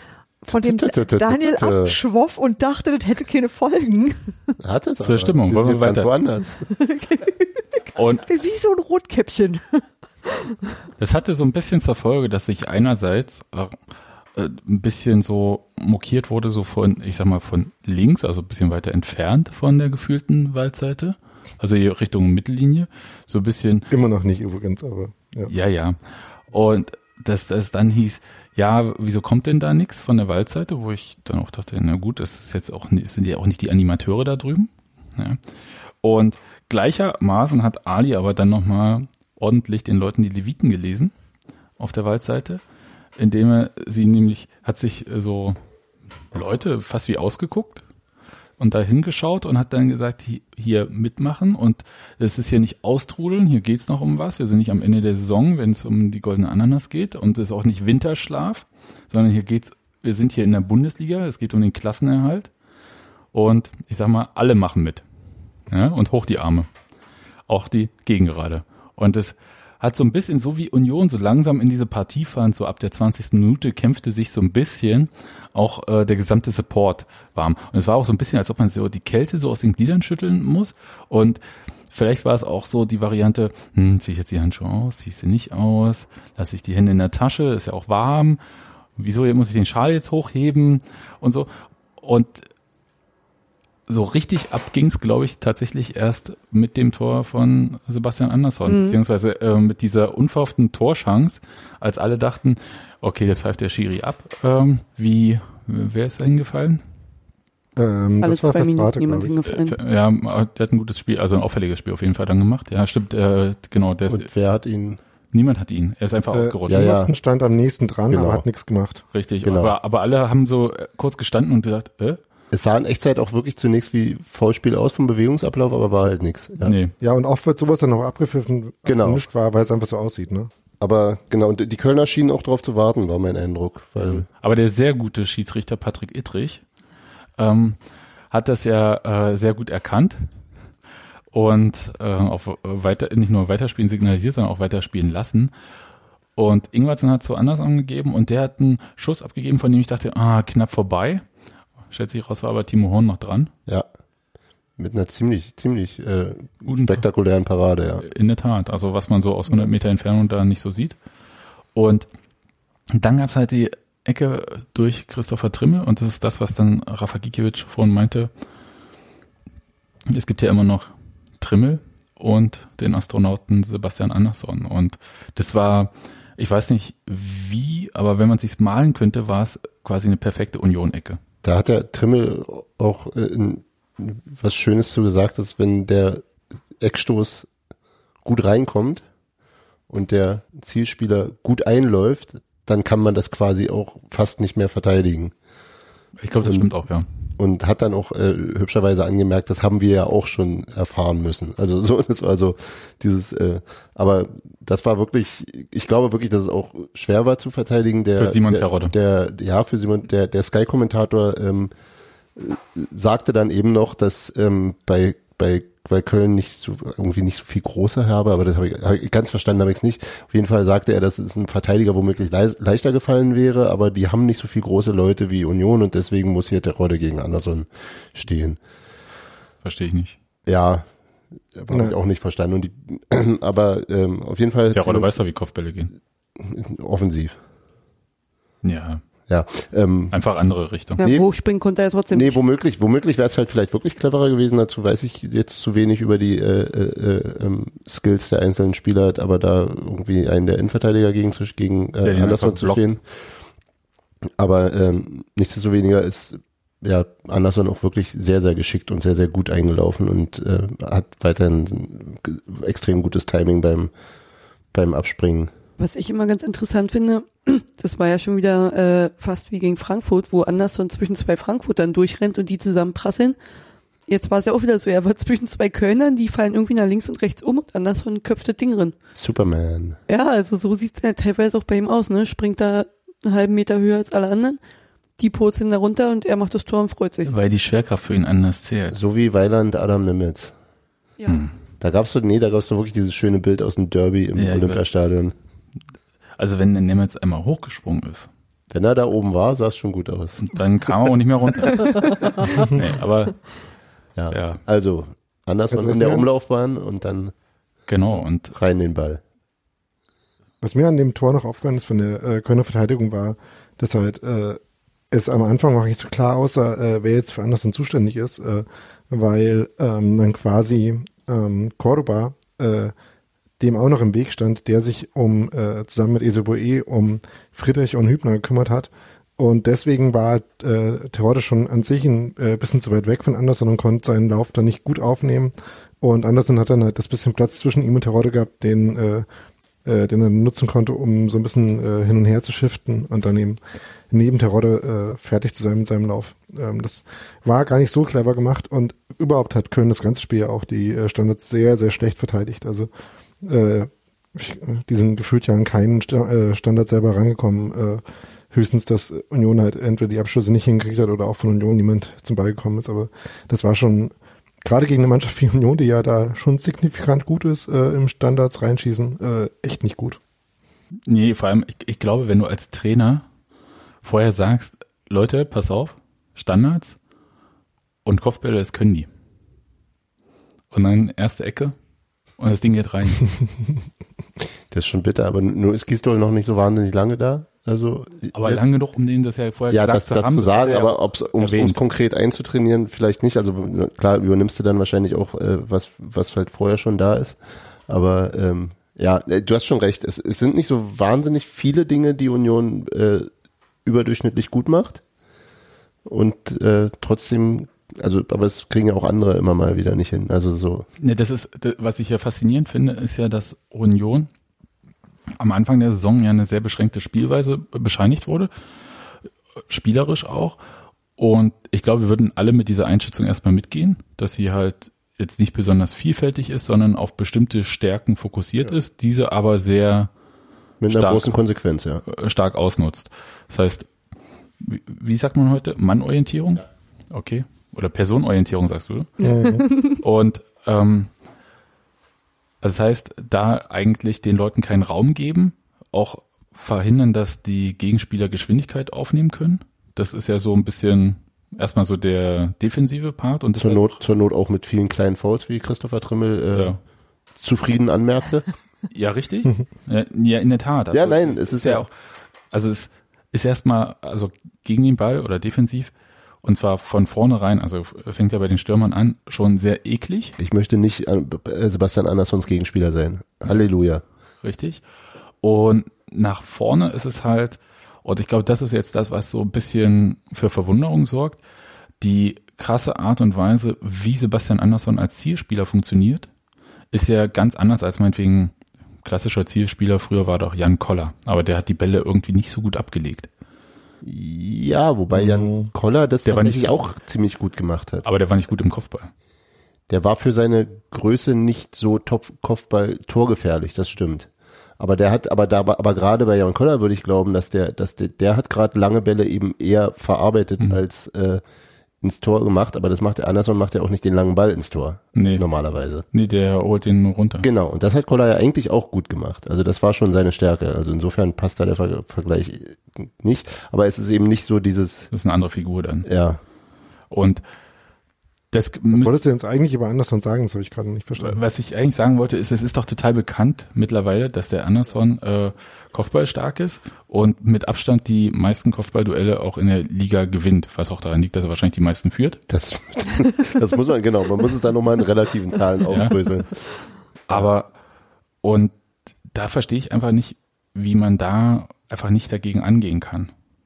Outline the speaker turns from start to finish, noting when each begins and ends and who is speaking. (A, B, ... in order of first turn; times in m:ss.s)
0:00.5-0:02.0 A
0:00.5-0:04.5 B
0:04.6-0:06.6 A
0:05.0-0:06.1 C
0:06.6-0:10.6 B
0:07.9-0:08.2 C
0:11.0-0:13.8 C
0:14.3-0:23.9 C
0:23.9-0:25.5 D
0:25.5-0:26.0 C
0:26.5-0:35.4 C
0:36.0-0:41.1 C
0:41.8-0:42.6 C
0:43.2-0:45.6 C
0:46.3-0:47.8 C
0:48.6-1:02.5 C
1:03.3-1:05.0 C
1:05.7-1:06.7 C
1:07.5-1:21.4 C
1:21.9-1:28.4 C
1:29.0-1:32.5 C
1:33.9-1:46.8 C
1:38.7-1:39.0 E
1:47.8-1:49.3 D
1:48.2-1:49.8 E
1:49.5-1:54.3 C
1:54.1-1:55.0 A
1:55.3-1:57.0 C
1:56.3-1:59.0 D
1:56.7-1:57.1 A
1:58.1-1:58.4 A
1:59.1-2:02.2 C
1:59.4-1:59.8 A
2:02.5-2:06.8 A
2:06.6-2:06.9 C
2:07.0-2:10.5 D
2:08.8-2:09.2 A
2:10.8-2:14.2 A
2:14.0-2:16.6 C
2:17.4-2:17.8 C
2:18.3-2:20.2 C
2:21.3-2:25.5 C
2:26.4-2:31.2 C
2:31.9-2:33.5 C
2:34.8-2:38.0 A
2:36.6-2:37.0 C
2:38.0-2:41.0 C
2:41.7-2:42.1 C
2:42.9-2:48.3 C
2:50.1-3:01.2 C
3:01.4-3:06.2 A
3:06.8-3:07.5 A
3:08.2-3:09.0 A
3:09.9-3:15.3 A
3:16.2-3:17.0 C
3:16.4-3:16.7 A
3:17.4-3:31.7 A
3:28.2-3:28.9 C
3:32.4-3:48.6 A
3:49.6-3:50.2 C
3:50.4-3:50.8 A
3:51.5-3:55.1 A
3:51.7-3:51.9 D
3:54.7-3:55.9 C
3:56.4-3:57.4 A
3:58.6-3:59.0 C
3:59.3-4:00.1 A
4:00.1-4:01.0 C
4:01.0-4:02.4 E
4:01.0-4:01.3 A
4:02.1-4:13.0 A
4:12.0-4:12.8 C
4:14.4-4:23.9 A
4:24.7-4:25.5 A
4:25.8-4:33.4 E
4:34.1-4:39.0 E
4:39.2-4:40.0 A
4:40.1-4:44.6 E
4:45.2-4:47.3 E
4:47.2-4:49.0 C
4:48.9-4:50.5 A
4:51.3-4:51.5 C
4:51.8-4:55.3 A
4:54.4-4:54.9 C
4:56.4-4:58.3 C
4:58.7-5:00.4 A
5:00.4-5:03.4 C
5:04.2-5:07.3 A
5:04.3-5:04.6 C
5:05.7-5:06.3 D
5:07.9-5:08.5 C
5:08.5-5:09.2 A
5:10.6-5:14.6 D
5:15.1-5:22.9 D
5:23.6-5:39.2 D
5:39.8-5:43.6 D
5:44.1-5:52.9 D
5:53.4-6:10.2 D
6:11.1-6:13.2 C
6:14.0-6:17.0 C
6:18.0-6:19.1 C
6:20.7-6:21.7 C
6:22.4-6:23.2 C
6:24.7-6:28.6 A
6:28.3-6:31.8 C
6:29.7-6:43.3 A
6:43.8-6:45.0 A
6:46.0-6:50.8 A
6:51.0-6:54.3 C
6:55.4-6:58.5 C
6:59.7-7:00.6 C
7:01.2-7:10.1 C
7:10.8-7:12.0 A
7:10.9-7:11.4 C
7:12.0-7:13.9 C
7:14.6-7:19.2 C
7:19.2-7:19.6 D
7:19.2-7:20.0 E
7:20.0-7:21.1 C
7:22.6-7:33.9 C
7:33.6-7:36.8 A
7:37.4-7:38.5 A
7:38.9-7:41.9 C
7:40.9-7:41.8 A
7:42.5-7:45.9 C
7:46.4-7:50.4 C
7:50.4-7:54.0 A
7:54.4-7:54.8 C
7:55.4-8:01.4 C
8:02.0-8:06.3 C
8:06.9-8:13.3 C
8:14.0-8:18.1 A
8:15.1-8:15.7 D
8:16.2-8:16.8 C
8:18.0-8:19.1 C
8:19.9-8:31.4 A
8:32.0-8:36.0 A
8:35.1-8:35.4 C
8:36.1-8:37.5 C
8:37.4-8:45.1 A
8:45.1-8:46.1 C
8:46.0-8:46.4 A
8:47.1-8:47.4 C
8:48.5-8:49.1 C
8:48.9-8:51.4 D
8:51.2-9:02.4 C
9:02.5-9:06.6 A
9:05.9-9:06.1 C
9:07.3-9:07.7 C
9:08.4-9:08.7 C
9:09.3-9:13.3 C